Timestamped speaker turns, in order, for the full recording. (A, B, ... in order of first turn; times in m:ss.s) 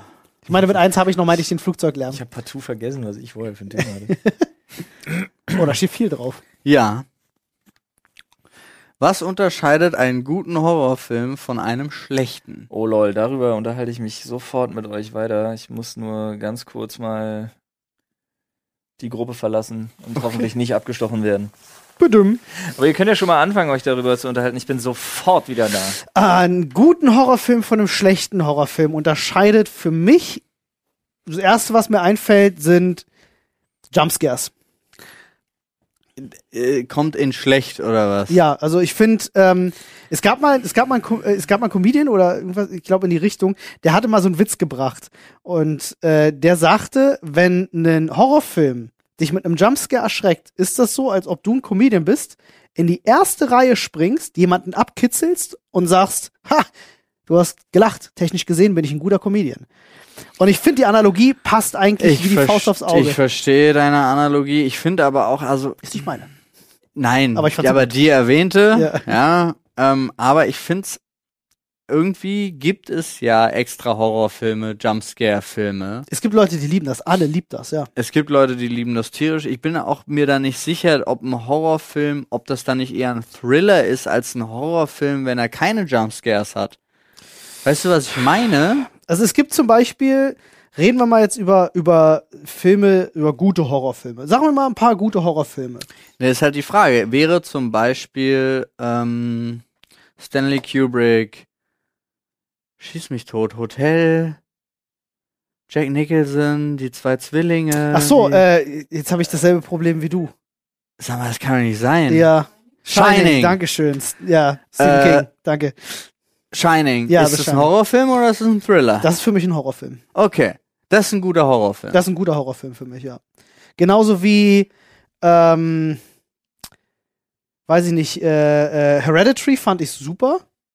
0:00.5-0:02.2 A
0:02.1-0:04.2 B
0:03.8-0:04.4 A
0:05.6-0:06.4 A
0:06.6-0:07.1 C
0:09.0-0:12.7 C
0:12.7-0:17.5 B
0:19.0-0:21.5 B
0:22.0-0:22.4 A
0:22.6-0:26.0 B
0:26.1-0:30.4 A
0:31.3-0:33.0 A
0:33.9-0:34.5 A
0:36.2-0:38.4 C
0:38.3-0:56.7 A
0:57.3-0:59.7 A
1:00.4-1:03.2 A
1:02.0-1:06.0 C
1:05.8-1:06.3 A
1:07.0-1:11.0 C
1:07.4-1:07.9 A
1:08.7-1:09.1 A
1:11.9-1:16.1 C
1:16.1-1:17.9 A
1:18.0-1:26.8 C
1:27.6-1:28.9 C
1:29.1-1:35.9 A
1:36.2-1:39.6 C
1:40.2-1:41.4 C
1:42.8-1:44.4 C
1:45.7-1:48.4 C
1:47.9-1:50.3 A
1:51.0-1:52.3 C
1:52.1-1:56.0 A
1:52.8-1:53.6 C
1:54.8-1:55.3 C
1:56.5-1:59.1 C
1:57.1-1:57.7 A
1:59.0-2:00.0 A
2:00.1-2:02.0 C
2:01.9-2:03.2 A
2:03.8-2:04.7 A
2:05.2-2:06.0 A
2:07.7-2:10.4 A